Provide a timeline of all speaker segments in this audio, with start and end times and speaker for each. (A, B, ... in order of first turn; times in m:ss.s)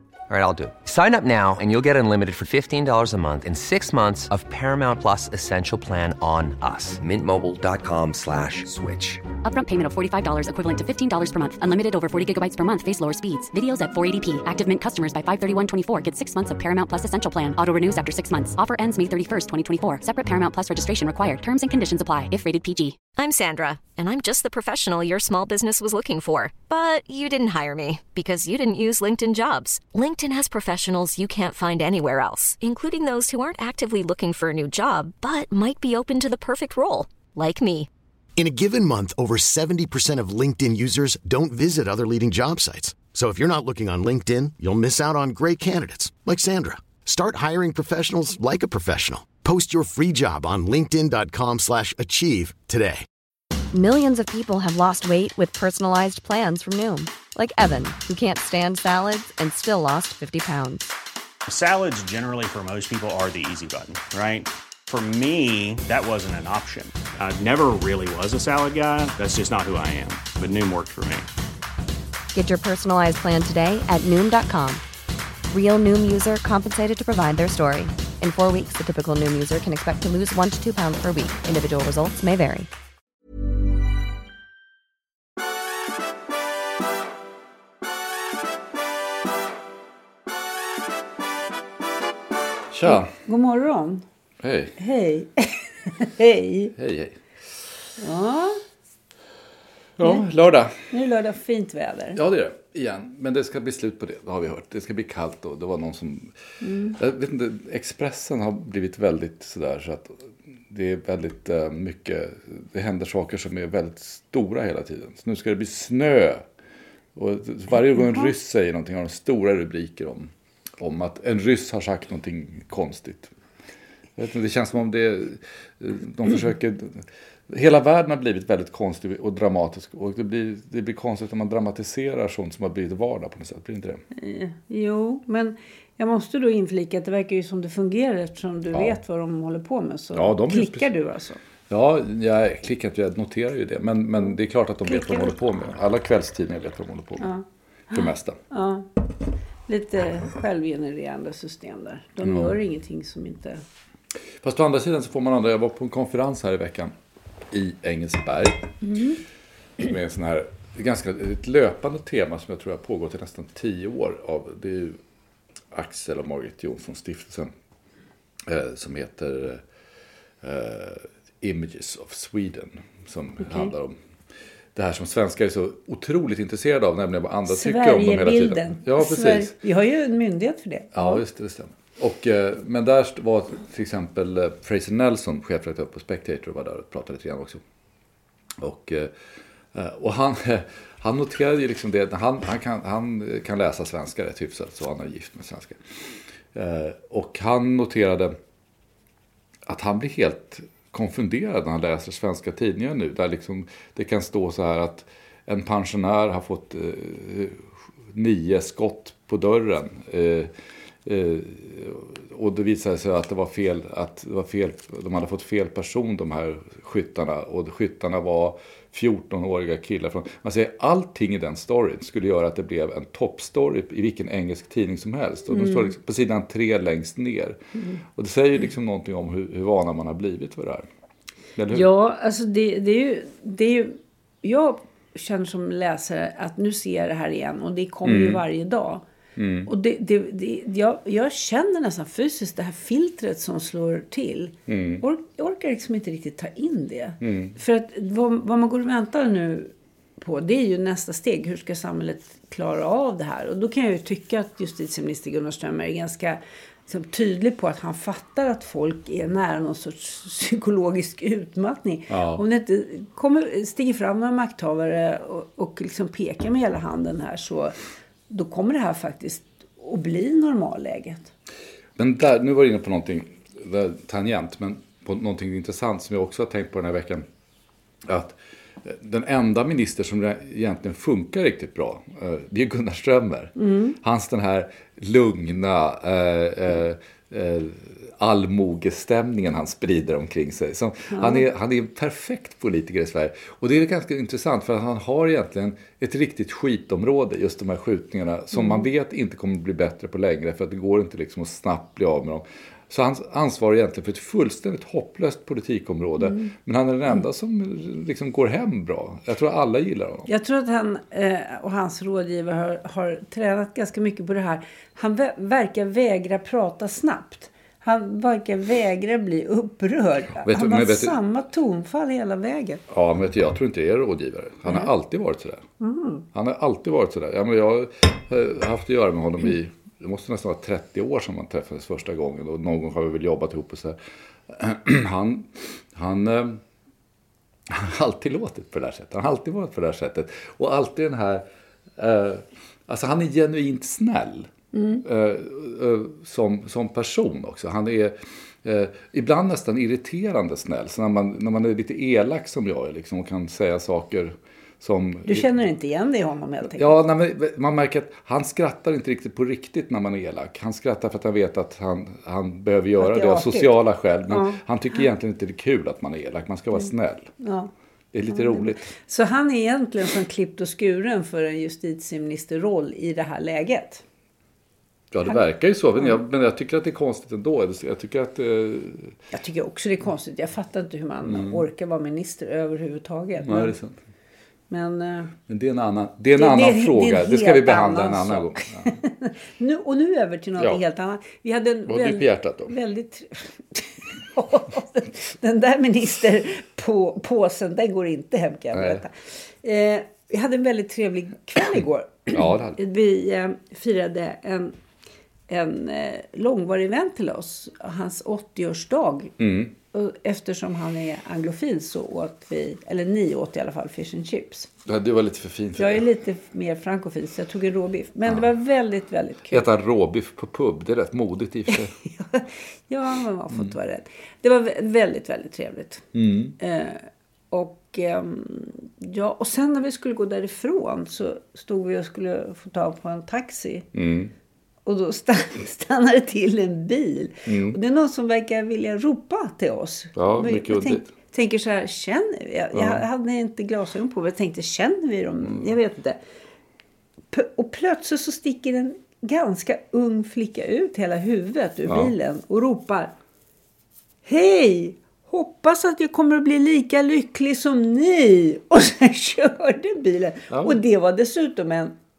0:00.3-0:09.2 A
0:09.4-0:23.0 B
0:23.2-0:37.9 C
0:38.4-0:53.0 D
0:53.7-1:00.9 E
1:01.5-1:11.3 F
1:12.3-1:14.8 E
1:15.5-1:22.7 E
1:32.7-1:33.1 G
1:32.8-1:34.0 H
1:34.4-1:34.8 G
1:34.8-1:36.7 H
1:36.8-1:37.2 G
1:38.0-1:38.6 H
1:40.0-1:40.8 G
1:40.9-1:42.2 H
1:42.1-1:46.3 G
1:46.6-1:47.0 H
1:46.9-1:50.2 G
1:50.7-1:56.4 G
1:57.1-2:03.3 G
2:04.2-2:14.0 G
2:14.1-2:21.4 H
2:18.7-2:19.0 G
2:20.1-2:20.9 G
2:21.7-2:27.3 G
2:24.9-2:25.3 H
2:27.2-2:29.1 H
2:27.9-2:28.4 G
2:29.7-2:33.6 H
2:32.2-2:32.6 G
2:34.4-2:36.9 G
2:37.5-2:38.7 G
2:38.8-2:39.2 H
2:39.8-2:45.0 G
2:45.7-2:47.5 G
2:48.4-2:49.6 G
2:50.4-2:54.0 G
2:53.4-2:53.7 H
2:54.7-2:59.5 G
2:57.5-3:01.2 H
3:00.9-3:07.6 G
3:08.6-3:09.1 G
3:09.7-3:15.8 G
3:16.5-3:18.4 G
3:19.7-3:30.5 G
3:31.0-3:50.8 G
3:45.5-3:45.9 H
3:51.6-3:51.9 G
3:51.7-3:59.0 H
3:58.0-3:58.4 G
3:59.4-3:59.7 G
3:59.6-4:27.8 H
4:04.7-4:05.0 G
4:07.2-4:07.6 G
4:22.1-4:22.4 G
4:28.3-4:31.3 H
4:32.0-4:37.3 G
4:38.0-5:10.3 G
4:43.6-4:44.0 H
4:51.1-4:51.4 H
4:58.6-4:58.8 H
5:10.3-5:22.8 H
5:20.4-5:21.2 G
5:22.9-5:25.6 G
5:25.8-5:26.2 H
5:26.3-5:34.0 G
5:34.5-5:36.6 G
5:37.7-5:41.4 G
5:42.0-5:44.5 G
5:44.7-5:45.0 H
5:45.0-5:55.5 G
5:55.2-5:56.9 H
5:56.7-6:07.3 G
6:03.0-6:03.8 H
6:04.3-6:04.6 H
6:07.4-6:07.7 H
6:08.1-6:08.9 G
6:08.3-6:14.0 H
6:15.1-6:19.1 G
6:19.3-6:23.7 H
6:21.2-6:21.6 G
6:23.4-6:24.0 G
6:24.7-6:25.3 H
6:25.5-6:29.0 G
6:26.3-6:44.8 H
6:31.9-6:32.7 G
6:38.7-6:39.0 G
6:42.3-6:42.8 G
6:45.5-6:49.3 H
6:49.4-6:49.7 G
6:49.9-6:54.7 H
6:54.8-6:56.1 G
6:55.8-6:59.6 H
6:59.5-7:01.9 G
7:02.2-7:06.0 H
7:06.1-7:06.6 G
7:06.6-7:13.9 H
7:13.9-7:14.3 G
7:14.8-7:26.2 H
7:17.4-7:17.8 G
7:20.1-7:21.1 G
7:22.7-7:23.0 G
7:27.3-7:33.1 H
7:31.8-7:32.1 G
7:34.2-7:41.9 H
7:40.5-7:40.8 G